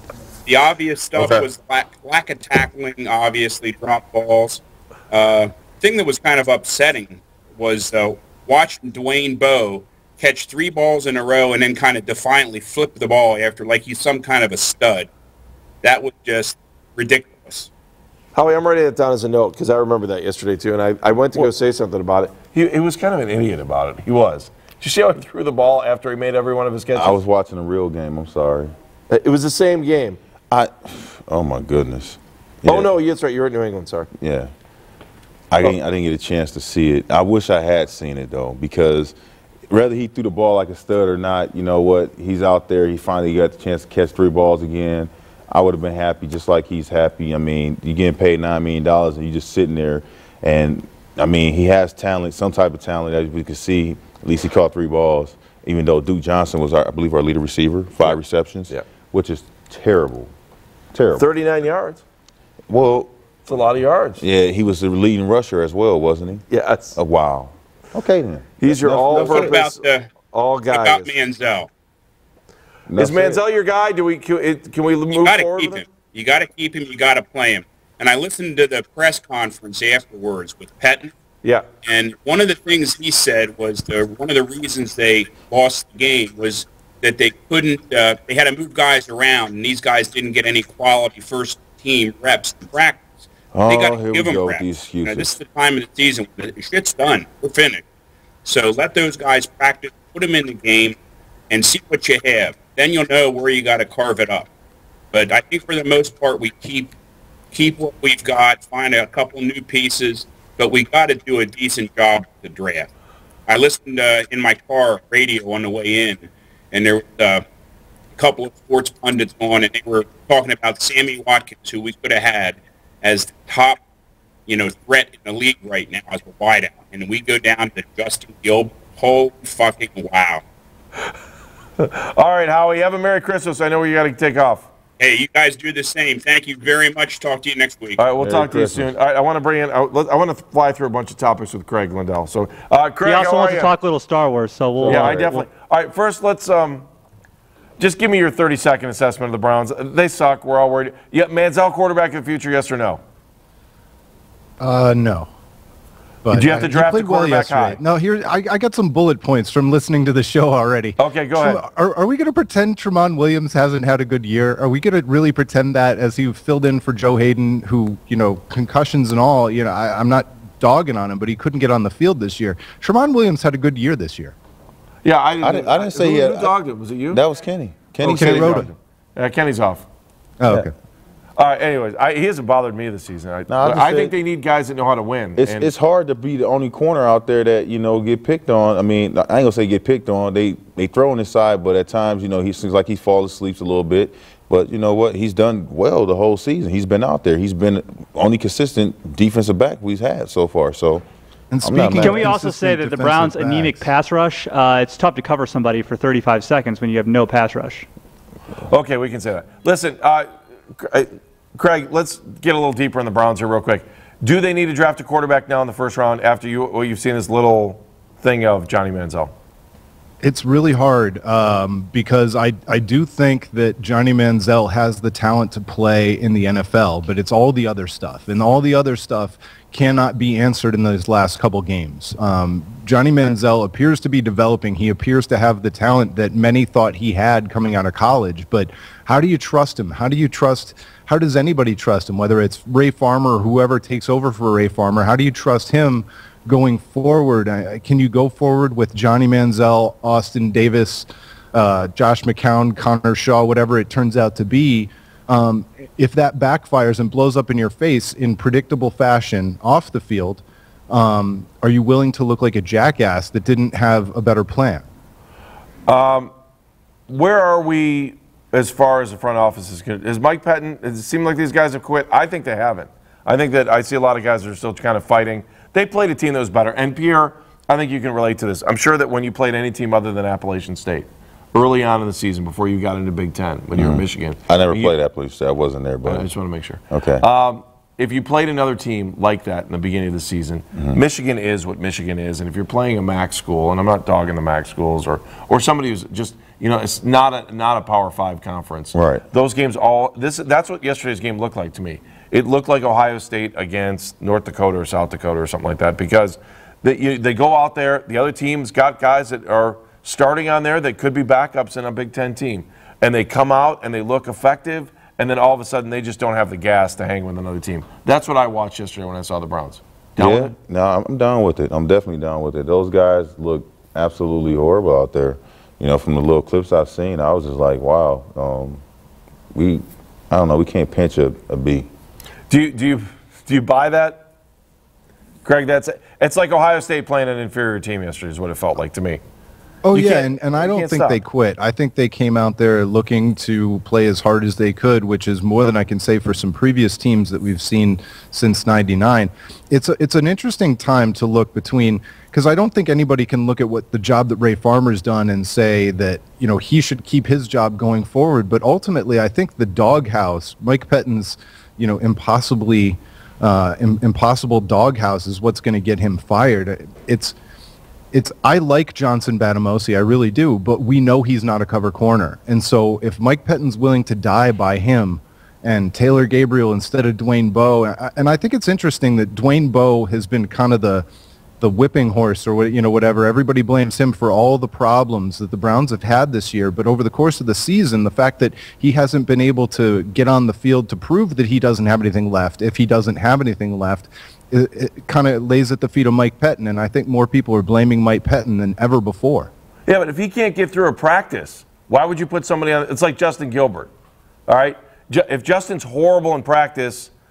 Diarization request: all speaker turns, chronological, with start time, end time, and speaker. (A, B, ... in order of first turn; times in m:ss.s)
0:00.5-0:15.1 A
0:01.2-0:01.5 B
0:15.8-0:17.7 A
0:18.3-0:27.2 C
0:27.0-0:28.7 B
0:29.1-0:30.2 C
0:30.5-0:32.9 B
0:32.6-0:34.1 C
0:34.2-0:34.5 B
0:35.5-0:39.1 B
0:39.7-1:00.3 B
1:00.9-1:01.3 B
1:01.2-1:02.0 C
1:02.7-1:03.1 B
1:03.5-1:04.2 C
1:04.2-1:06.4 B
1:06.5-1:07.0 C
1:07.0-1:09.6 B
1:08.6-1:11.2 C
1:09.1-1:10.1 A
1:10.7-1:11.7 A
1:12.9-1:13.4 B
1:13.0-1:15.8 C
1:15.1-1:21.1 A
1:21.8-1:33.0 A
1:33.5-1:35.3 B
1:33.6-1:37.8 A
1:38.4-1:41.0 A
1:41.5-1:44.5 A
1:45.1-1:46.9 A
1:47.5-1:52.9 A
1:53.5-1:57.4 A
1:58.2-2:03.8 A
2:04.5-2:10.4 A
2:11.8-2:14.7 C
2:15.0-2:18.0 A
2:18.0-2:23.7 C
2:18.2-2:18.9 B
2:23.0-2:25.3 D
2:24.8-2:25.5 B
2:24.9-2:26.8 C
2:27.8-2:33.0 C
2:34.6-2:35.3 E
2:36.2-2:54.4 E
2:36.3-2:37.8 C
2:41.0-2:41.6 C
2:55.0-2:57.2 C
2:55.4-2:56.6 B
2:57.1-2:58.7 B
2:58.0-2:59.8 C
2:58.0-2:58.7 E
3:00.4-3:00.7 E
3:01.4-3:05.7 C
3:03.5-3:04.1 B
3:05.4-3:21.0 B
3:21.5-3:23.9 E
3:21.6-3:22.4 B
3:22.0-3:27.9 D
3:28.7-3:39.3 C
3:40.2-4:24.9 E
4:25.9-4:26.3 C
4:27.1-4:44.9 C
4:43.8-4:46.3 B
4:46.1-5:20.5 C
4:46.9-4:47.2 B
4:50.8-4:51.0 B
4:58.9-4:59.2 B
5:20.2-5:28.8 B
5:29.5-5:31.9 B
5:32.5-5:34.3 C
5:35.4-5:39.2 C
5:39.8-6:07.4 E
5:39.9-5:41.2 C
6:08.1-6:21.1 E
6:21.6-6:39.5 E
6:39.9-6:43.9 C
6:44.5-6:47.1 C